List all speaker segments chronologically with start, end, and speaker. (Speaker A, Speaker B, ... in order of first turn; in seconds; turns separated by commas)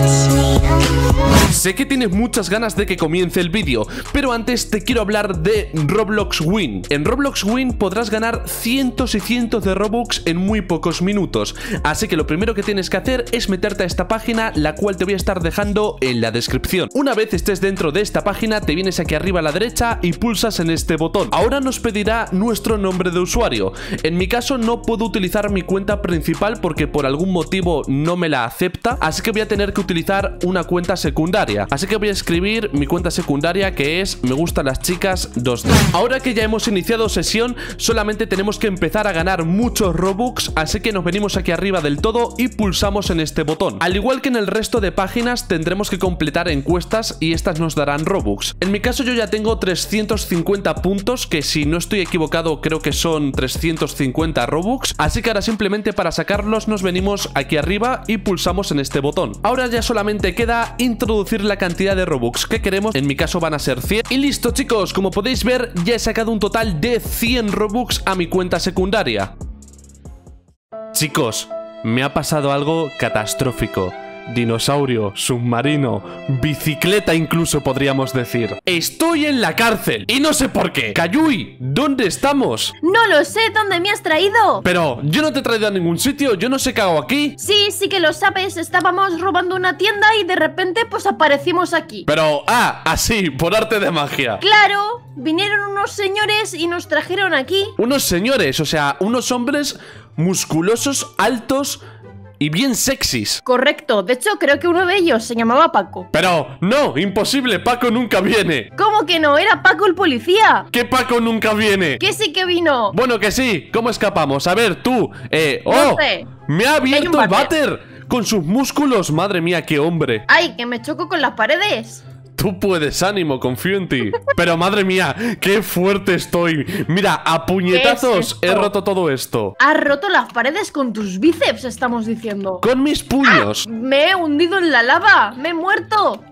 Speaker A: 1.5-69.3, Speaker A: 70.9-82.7, Speaker B: 82.8-84.6, Speaker A: 84.6-87.4, Speaker B: 87.4-92.1, Speaker A: 92.1-94.4, Speaker B: 94.4-97.8, Speaker A: 97.8-101.8, Speaker A: 102.4-103.4, Speaker B: 103.5-106.1, Speaker A: 106.1-108.7, Speaker B: 108.8-110.7, Speaker A: 110.7-112.0, Speaker B: 112.0-113.0, Speaker A: 112.9-120.2, Speaker B: 115.7-116.3, Speaker B: 116.9-117.5, Speaker B: 120.3-122.0, Speaker A: 122.4-129.6, Speaker B: 127.7-128.7, Speaker B: 129.6-132.7, Speaker A: 132.6-133.7, Speaker B: 133.2-136.2